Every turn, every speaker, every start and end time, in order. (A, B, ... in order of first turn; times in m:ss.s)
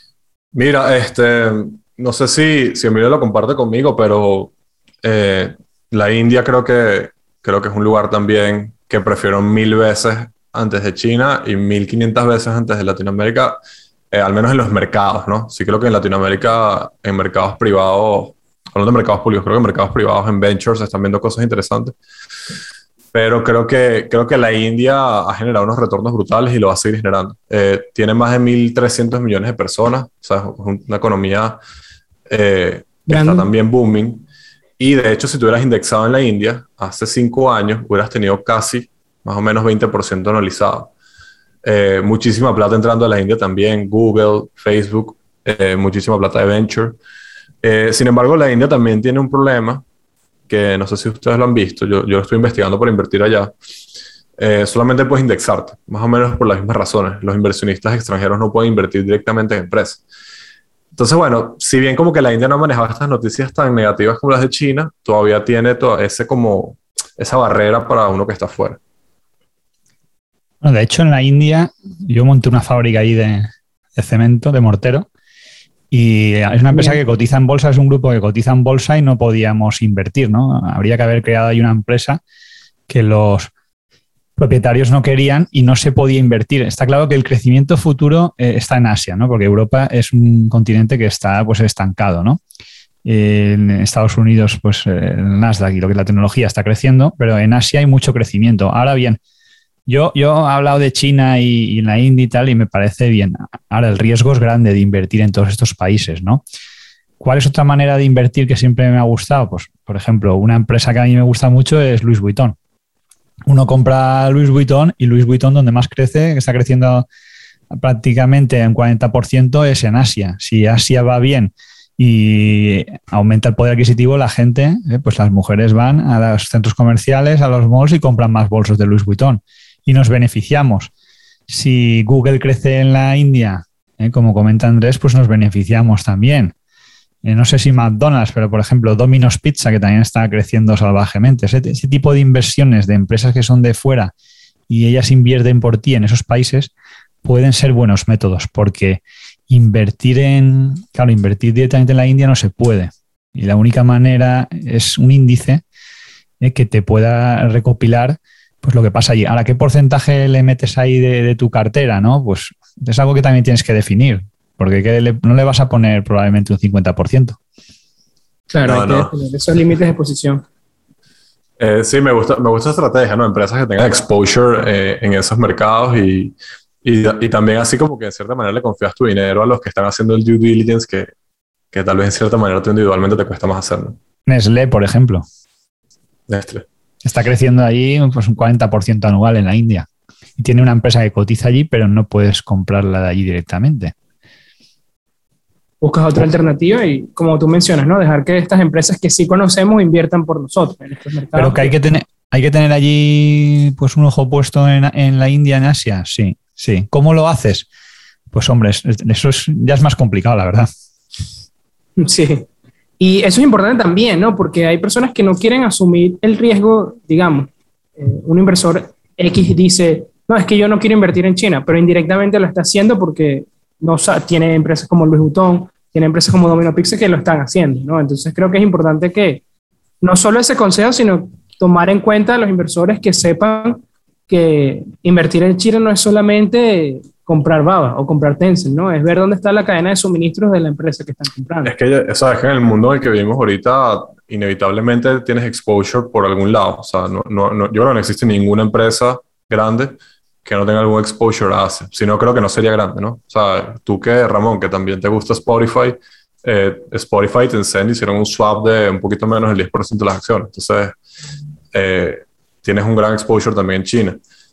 0:00.5-0:04.5 A
0:05.0-0:13.6 A
0:14.1-0:22.0 A
0:23.1-0:31.6 A
0:32.3-0:34.3 A
0:33.1-0:33.5 B
0:34.8-0:40.9 A
0:41.6-0:47.0 A
0:47.6-0:49.8 A
0:50.5-0:53.5 A
0:54.4-1:00.0 A
1:00.9-1:08.8 A
1:10.6-1:15.1 C
1:15.9-1:22.2 C
1:16.7-1:17.0 B
1:22.9-1:23.5 C
1:24.4-1:32.4 C
1:33.0-1:39.2 C
1:39.9-1:46.4 C
1:47.2-1:52.6 C
1:53.5-1:57.1 C
1:57.7-2:10.9 C
2:11.5-2:16.5 C
2:17.2-2:24.1 C
2:24.7-2:26.7 C
2:27.2-2:35.6 C
2:36.4-2:47.4 C
2:48.5-2:50.4 B
2:48.6-2:49.1 A
2:51.6-3:01.1 A
3:01.7-3:04.0 A
3:04.3-3:05.3 C
3:06.3-3:06.7 A
3:07.0-3:13.9 C
3:15.8-3:21.8 B
3:21.4-3:27.7 C
3:28.3-3:30.7 C
3:32.0-3:32.5 B
3:33.0-3:49.4 B
3:50.0-4:01.7 B
4:01.6-4:21.0 A
4:21.7-4:24.2 A